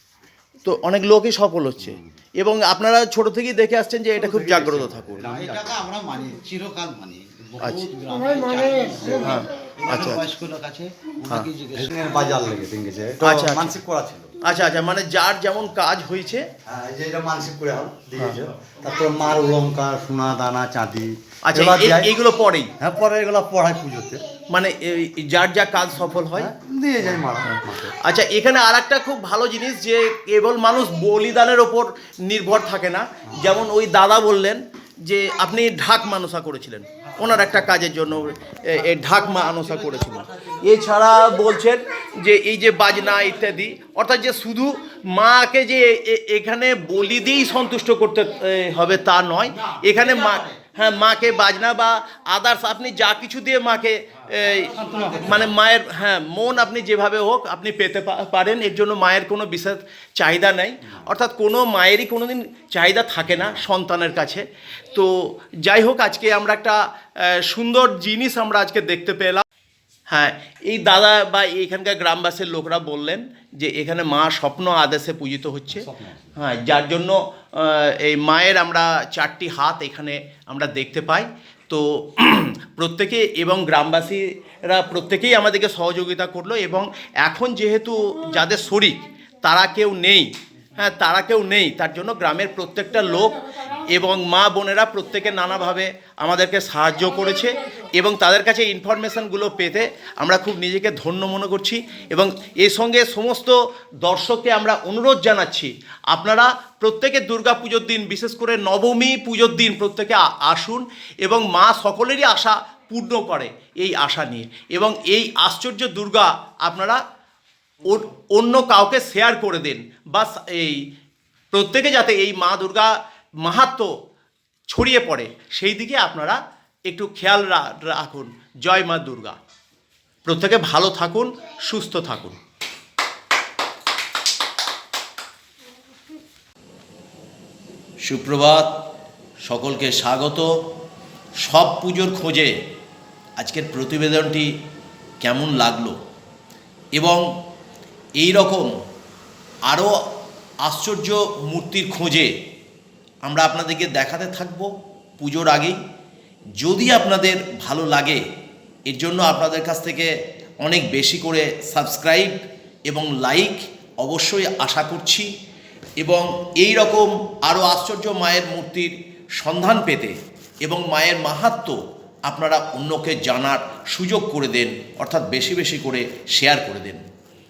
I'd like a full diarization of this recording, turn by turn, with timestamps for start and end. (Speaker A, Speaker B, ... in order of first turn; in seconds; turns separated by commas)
Speaker A: 0.6-5.2, Speaker B: 1.8-2.1, Speaker B: 4.2-5.7, Speaker C: 5.2-12.4, Speaker A: 7.6-7.9, Speaker A: 9.2-10.2, Speaker B: 11.7-14.3, Speaker A: 13.2-13.7, Speaker A: 14.4-16.5, Speaker B: 16.6-22.1, Speaker A: 18.2-18.4, Speaker A: 21.4-22.7, Speaker B: 22.8-24.2, Speaker A: 24.5-26.5, Speaker B: 26.3-27.9, Speaker A: 27.4-69.4, Speaker C: 37.0-37.7, Speaker C: 38.7-40.8, Speaker C: 49.5-50.6, Speaker C: 54.4-55.5, Speaker B: 54.7-55.5, Speaker A: 70.1-117.0, Speaker B: 75.7-76.3, Speaker A: 117.8-120.8, Speaker A: 121.5-123.9, Speaker A: 124.7-129.4, Speaker A: 130.2-132.4, Speaker A: 138.0-138.7, Speaker A: 139.4-140.5, Speaker A: 141.4-142.5, Speaker A: 143.4-144.5, Speaker A: 145.2-145.9, Speaker A: 146.9-147.2, Speaker A: 148.2-148.7, Speaker A: 149.7-150.0, Speaker A: 150.6-152.3, Speaker A: 153.2-155.8, Speaker A: 156.6-158.2, Speaker A: 158.9-165.3, Speaker A: 166.0-177.0